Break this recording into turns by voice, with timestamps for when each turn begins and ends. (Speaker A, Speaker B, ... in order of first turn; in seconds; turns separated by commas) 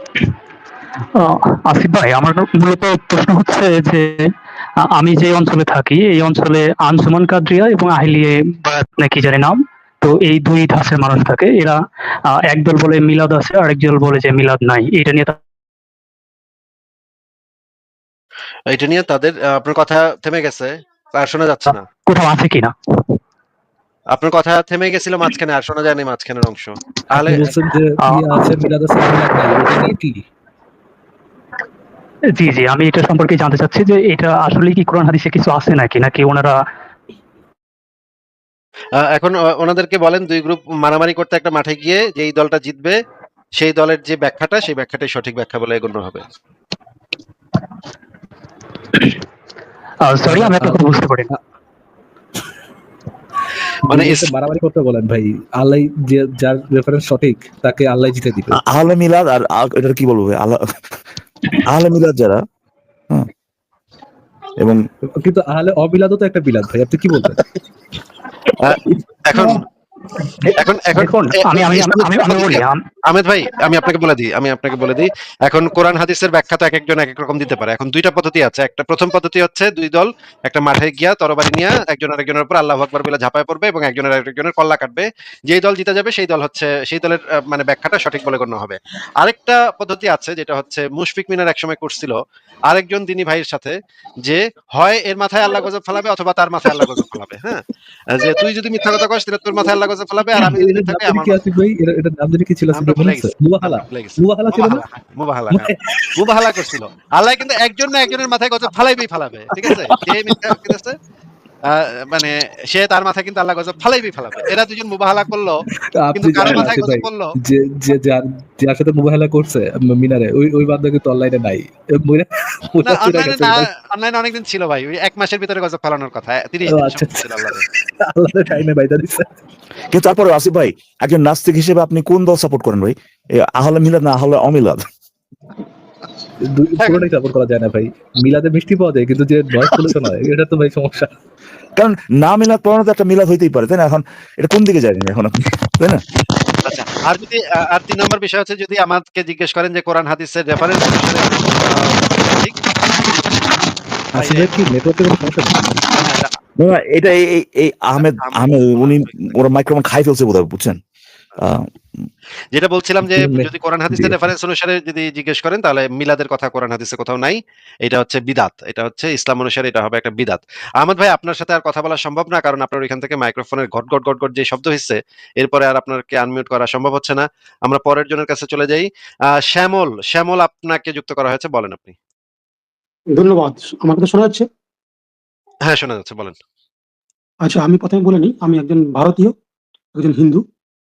Speaker A: 1.2-4.2, Speaker A: 4.8-15.4, Speaker B: 18.7-21.8, Speaker A: 22.1-23.1, Speaker B: 24.1-27.5, Speaker C: 27.1-30.2, Speaker A: 28.0-28.6, Speaker A: 32.3-36.5, Speaker B: 39.0-43.0, Speaker B: 43.6-46.2, Speaker A: 48.9-49.2, Speaker A: 50.0-51.3, Speaker C: 50.2-51.4, Speaker B: 53.9-54.3, Speaker C: 53.9-58.6, Speaker D: 58.5-60.6, Speaker D: 61.7-62.4, Speaker C: 65.2-67.5, Speaker B: 69.3-69.6, Speaker A: 70.4-72.8, Speaker B: 70.6-92.2, Speaker B: 92.7-101.4, Speaker C: 100.4-104.8, Speaker B: 102.7-111.0, Speaker C: 105.5-106.2, Speaker C: 109.5-110.4, Speaker B: 111.7-115.6, Speaker C: 116.0-123.6, Speaker B: 116.1-117.3, Speaker B: 122.8-127.6, Speaker C: 126.7-129.3, Speaker D: 129.9-134.8, Speaker C: 136.4-141.1, Speaker D: 141.8-146.0, Speaker B: 146.7-152.6, Speaker C: 154.1-155.8, Speaker B: 154.2-154.6, Speaker B: 155.9-156.3, Speaker D: 156.6-160.8, Speaker B: 158.0-159.3, Speaker D: 161.4-161.7, Speaker B: 162.5-182.0, Speaker C: 163.0-164.2, Speaker E: 183.1-184.5, Speaker B: 185.7-186.4, Speaker E: 187.4-189.3, Speaker E: 189.9-190.4